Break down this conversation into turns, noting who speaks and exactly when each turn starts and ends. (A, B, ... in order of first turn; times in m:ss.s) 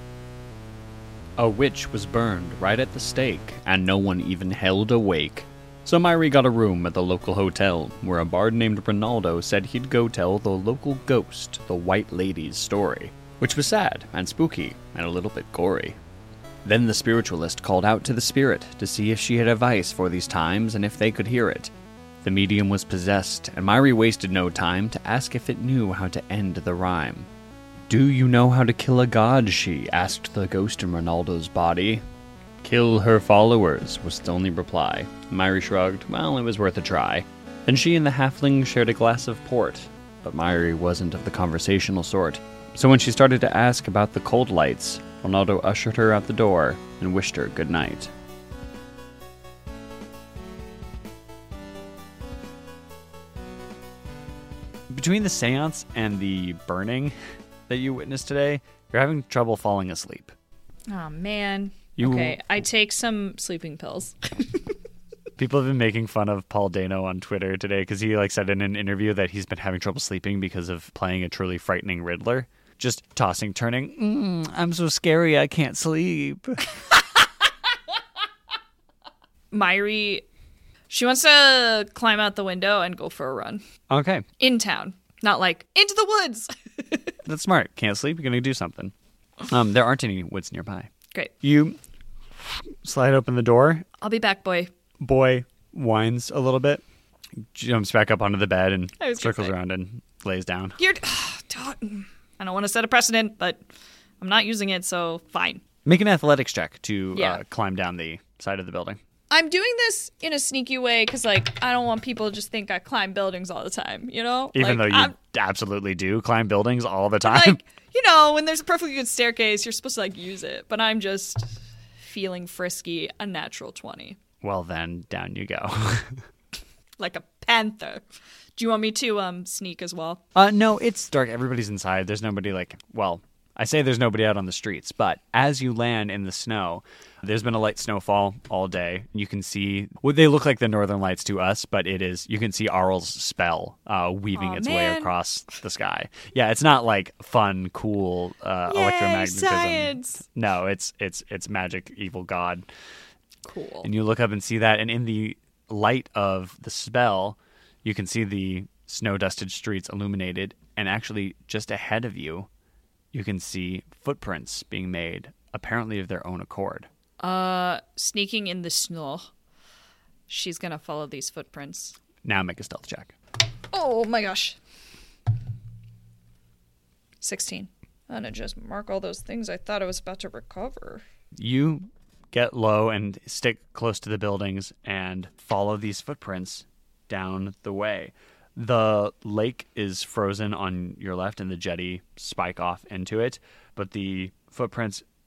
0:01.4-0:16.0 A
0:16.6-0:21.7 A
0:22.2-0:27.3 A
0:27.9-0:32.0 A
0:32.6-0:48.1 A
0:54.9-0:57.2 A
0:57.7-1:00.3 A
1:00.9-1:04.7 B
1:02.0-1:02.4 A
1:05.4-1:16.8 A
1:19.5-1:20.2 B
1:20.9-1:23.6 B
1:23.9-1:24.3 A
1:24.4-1:27.1 B
1:27.2-1:28.9 A
1:29.5-1:30.9 A
1:31.4-1:31.8 A
1:32.5-1:33.9 A
1:34.0-1:34.7 B
1:35.0-1:36.8 A
1:37.5-1:40.8 A
1:39.0-1:39.5 B
1:40.8-1:43.6 B
1:44.2-1:45.6 B
1:45.8-1:49.0 A
1:47.2-1:47.4 B
1:49.3-1:55.1 B
1:54.5-1:57.6 A
1:57.2-2:04.2 B
2:04.4-2:06.2 A
2:07.0-2:08.0 B
2:08.6-2:10.2 B
2:10.4-2:32.6 A
2:24.4-2:25.1 B
2:28.7-2:30.2 B
2:33.4-2:33.9 B
2:33.8-2:42.5 A
2:43.1-2:46.9 A
2:47.2-2:49.3 B
2:50.3-2:52.0 B
2:52.2-2:53.1 A
2:53.7-2:54.6 B
2:57.2-3:01.0 B
3:01.4-3:15.0 A